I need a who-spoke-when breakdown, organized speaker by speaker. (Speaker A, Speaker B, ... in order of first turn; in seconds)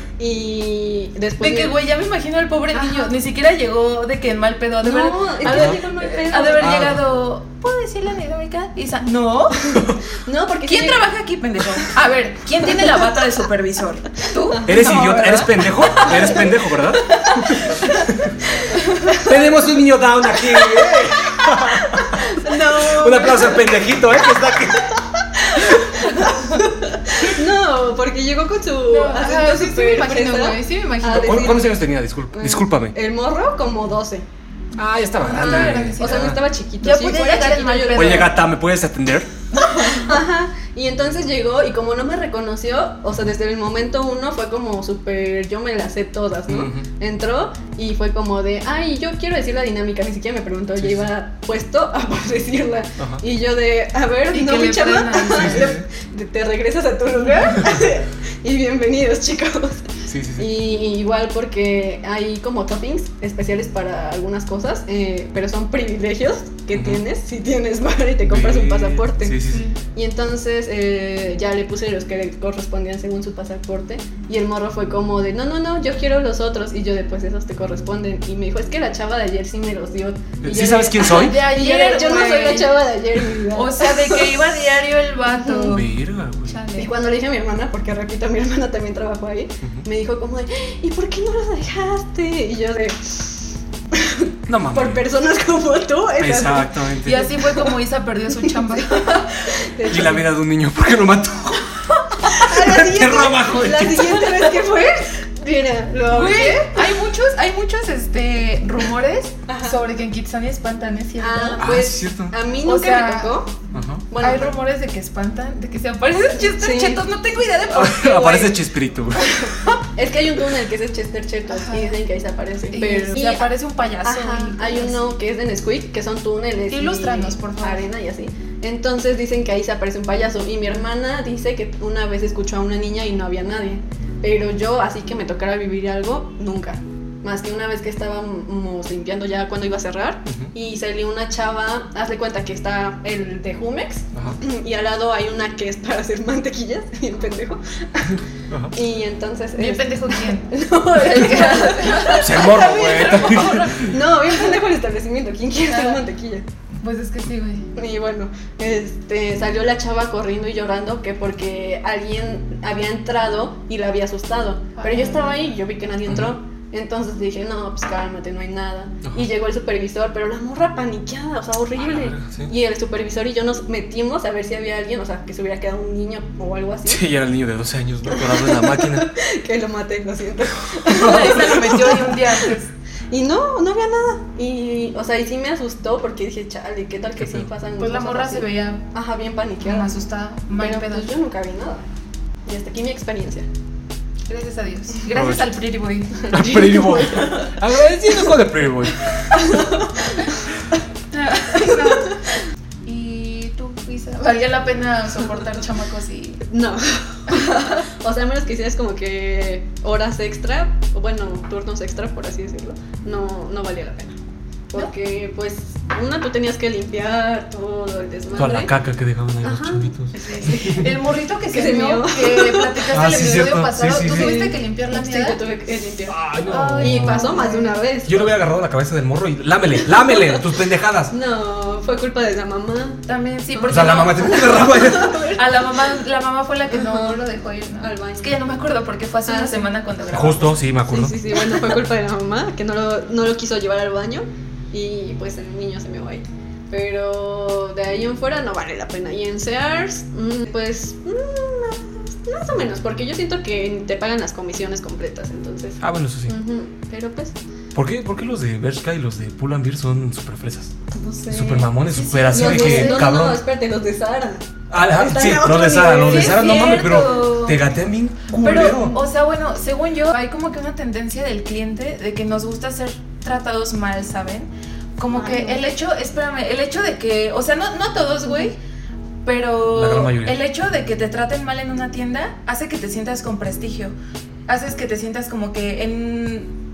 Speaker A: 0.2-1.8, 2.7-3.1, 4.8-6.9, 10.2-11.1, 14.4-17.9, 18.6-19.4, 20.5-21.2, 22.1-34.3, 35.3-38.4, 39.8-69.4, 70.0-84.6, 85.3-85.8, 86.8-97.8, 98.4-100.3, 102.2-106.9, 109.5-109.8, 111.2-113.5, 114.1-114.5, 116.3-117.1, 119.2-148.2, 148.7-152.6, 153.8-156.5, 157.8-177.1, 178.1-182.5, 183.1-190.1, 190.6-191.8, 192.4-193.5, 196.2-197.7, 199.3-200.2, 201.5-202.2, 206.4-214.2, 214.7-218.7, 219.4-223.3, 223.9-226.2, 226.8-228.4, 229.9-230.4, 231.1-233.0, 233.5-235.6, 236.7-237.2, 237.8-238.4, 239.3-239.7, 240.9-257.4, 260.9-261.8, 262.3-266.5, 268.6-269.0, 275.1-275.6, 278.3-278.5
Speaker B: 1.4-9.9, 10.6-16.3, 28.9-31.6, 35.2-38.4, 39.5-40.1, 54.3-55.8, 69.5-69.8, 80.6-86.9, 97.0-99.5, 106.1-111.8, 112.6-113.4, 114.2-118.6, 121.5-122.0, 122.7-125.0, 126.7-127.8, 149.6-153.9, 155.7-156.0, 156.8-157.7, 164.8-165.4, 180.9-182.7, 187.8-188.9, 189.6-191.1, 194.3-196.3, 201.1-206.4, 207.3-207.8, 220.2-225.4, 226.5-227.8, 233.1-240.6, 261.9-263.1, 266.0-267.6, 268.4-278.6, 279.2-283.9, 284.5-286.5
Speaker C: 5.5-5.8, 6.6-7.0, 14.7-18.4, 19.1-25.0, 25.6-26.0, 31.1-33.0, 34.8-36.4, 37.9-39.3, 46.5-46.9, 50.8-51.1, 55.3-55.8, 60.1-60.5, 66.7-67.0, 68.2-69.7, 80.4-81.4, 85.7-86.6, 94.5-95.0, 96.2-97.3, 99.9-101.7, 102.2-104.3, 111.6-112.4, 113.7-114.1, 117.7-119.4, 140.3-140.5, 144.1-144.4, 148.5-148.8, 152.1-153.9, 166.1-166.3, 171.8-172.5, 176.9-179.1, 180.8-181.9, 187.2-187.5, 195.1-195.5, 196.3-199.4, 218.4-220.8, 222.9-224.4, 226.1-227.4, 228.1-231.1, 233.7-235.3, 240.1-241.2, 255.8-256.4, 257.7-260.7, 261.3-263.4, 264.7-269.0, 279.7-280.4